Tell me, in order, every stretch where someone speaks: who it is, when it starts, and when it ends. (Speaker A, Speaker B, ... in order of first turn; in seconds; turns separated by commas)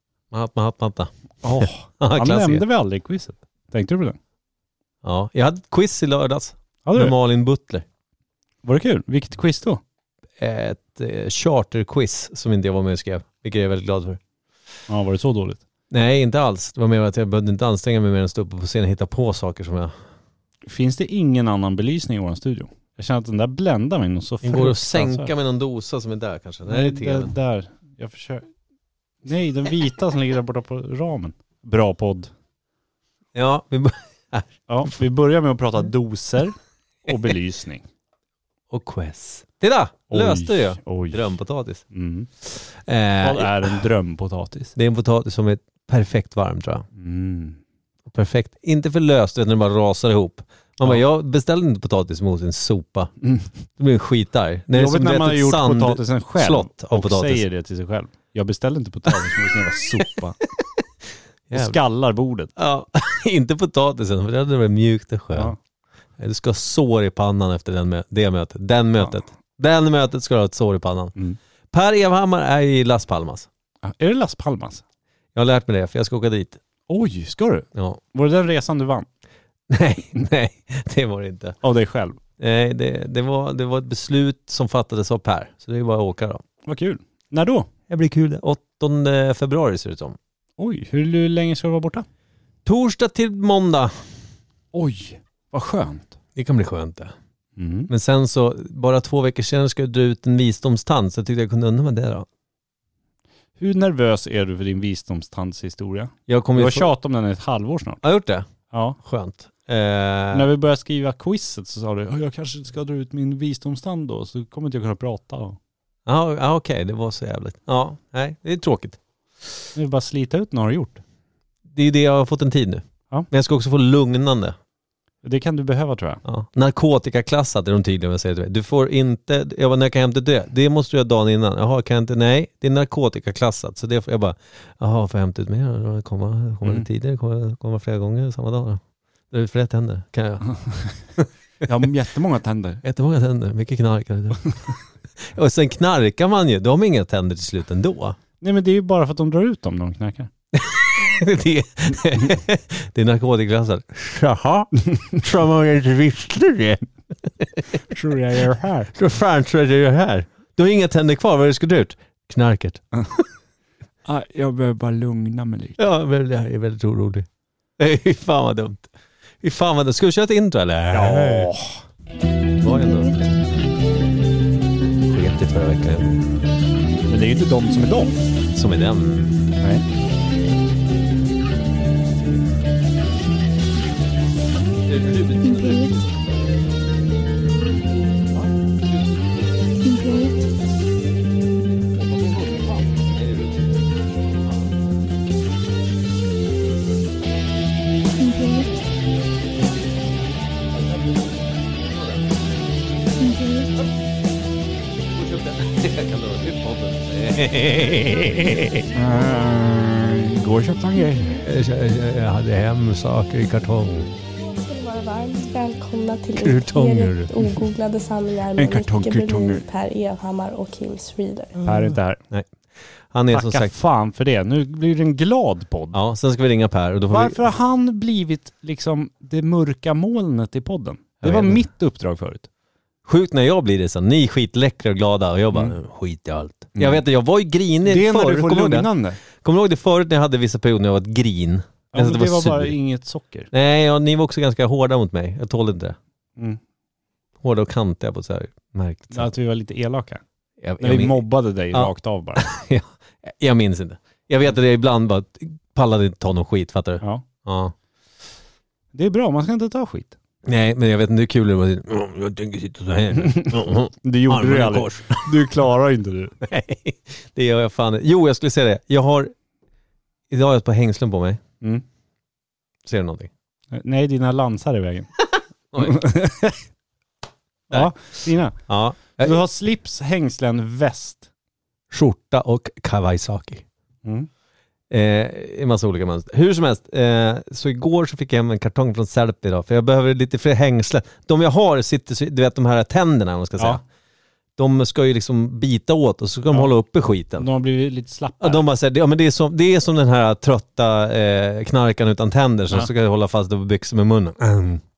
Speaker A: 0.3-2.6, Speaker B: 1.4-4.2, Speaker A: 5.0-7.8, Speaker B: 6.8-7.1, Speaker B: 8.6-9.8, Speaker A: 10.4-14.2, Speaker B: 14.9-15.6, Speaker A: 15.9-19.9, Speaker B: 20.6-25.3, Speaker A: 24.4-27.3, Speaker B: 26.7-28.5, Speaker B: 29.2-32.3, Speaker A: 33.3-35.0, Speaker B: 34.7-37.9, Speaker A: 38.7-41.8, Speaker B: 40.1-41.3, Speaker B: 41.9-42.3, Speaker A: 42.4-43.8, Speaker B: 43.2-44.7, Speaker A: 44.8-46.8, Speaker B: 47.0-47.6, Speaker A: 48.1-53.1, Speaker B: 53.2-53.5, Speaker A: 53.8-57.4, Speaker B: 54.7-60.4, Speaker A: 61.5-61.8, Speaker B: 61.5-62.5, Speaker A: 62.5-65.5, Speaker A: 66.2-71.1, Speaker A: 71.7-73.5, Speaker B: 73.8-74.8, Speaker A: 75.3-76.6, Speaker B: 76.9-79.1, Speaker A: 79.7-81.6, Speaker B: 81.6-82.2, Speaker A: 82.4-86.4, Speaker B: 86.7-87.7, Speaker A: 87.9-90.2, Speaker B: 90.6-92.0, Speaker A: 92.6-94.0, Speaker B: 94.7-96.1, Speaker A: 96.3-97.1, Speaker B: 97.6-97.9, Speaker A: 97.9-102.2, Speaker B: 103.6-108.0, Speaker A: 106.3-106.9, Speaker A: 108.0-108.5, Speaker B: 108.7-109.0, Speaker A: 109.0-110.5, Speaker B: 110.3-115.6, Speaker A: 116.0-119.6, Speaker B: 119.7-121.0, Speaker A: 121.7-124.5, Speaker B: 125.2-126.2, Speaker A: 126.2-141.3, Speaker B: 140.5-140.9, Speaker B: 141.6-142.8, Speaker A: 142.8-148.2, Speaker B: 148.4-150.3, Speaker A: 150.5-157.8, Speaker B: 157.9-158.9, Speaker A: 158.9-163.2, Speaker B: 164.0-165.8, Speaker A: 165.8-167.2, Speaker A: 167.8-171.5, Speaker B: 170.9-171.8, Speaker A: 172.6-173.3, Speaker C: 172.6-173.2, Speaker A: 175.1-176.2, Speaker B: 177.1-178.1, Speaker A: 178.5-179.3, Speaker B: 179.6-179.8, Speaker A: 184.9-186.1, Speaker C: 185.4-185.9, Speaker A: 188.8-189.3, Speaker C: 189.8-190.4, Speaker A: 192.0-193.5, Speaker C: 198.2-198.7, Speaker C: 203.2-203.7, Speaker A: 205.1-208.9, Speaker B: 208.9-211.4, Speaker C: 211.0-211.4, Speaker A: 211.4-214.1, Speaker C: 214.4-221.6, Speaker A: 216.4-217.3, Speaker B: 218.5-219.6, Speaker B: 221.6-222.2, Speaker A: 221.7-222.5, Speaker A: 223.1-223.7, Speaker B: 223.3-226.0, Speaker A: 225.9-227.4, Speaker B: 227.1-232.5, Speaker A: 231.2-231.6, Speaker A: 233.1-242.8, Speaker B: 236.8-237.0, Speaker B: 237.8-239.2, Speaker B: 241.9-243.5, Speaker A: 243.5-246.0, Speaker A: 247.4-249.3, Speaker B: 249.1-250.2, Speaker A: 250.6-251.2, Speaker B: 250.8-252.4, Speaker A: 251.7-257.7, Speaker B: 258.9-260.1, Speaker A: 260.4-265.3, Speaker B: 263.2-266.3, Speaker A: 266.4-269.3, Speaker A: 270.3-271.4, Speaker A: 272.8-273.3, Speaker B: 273.7-275.1, Speaker B: 275.8-276.6, Speaker B: 277.7-281.2, Speaker A: 278.5-279.4, Speaker A: 281.9-283.6, Speaker A: 284.9-293.8, Speaker A: 294.6-297.5, Speaker B: 297.4-298.6, Speaker A: 298.4-304.8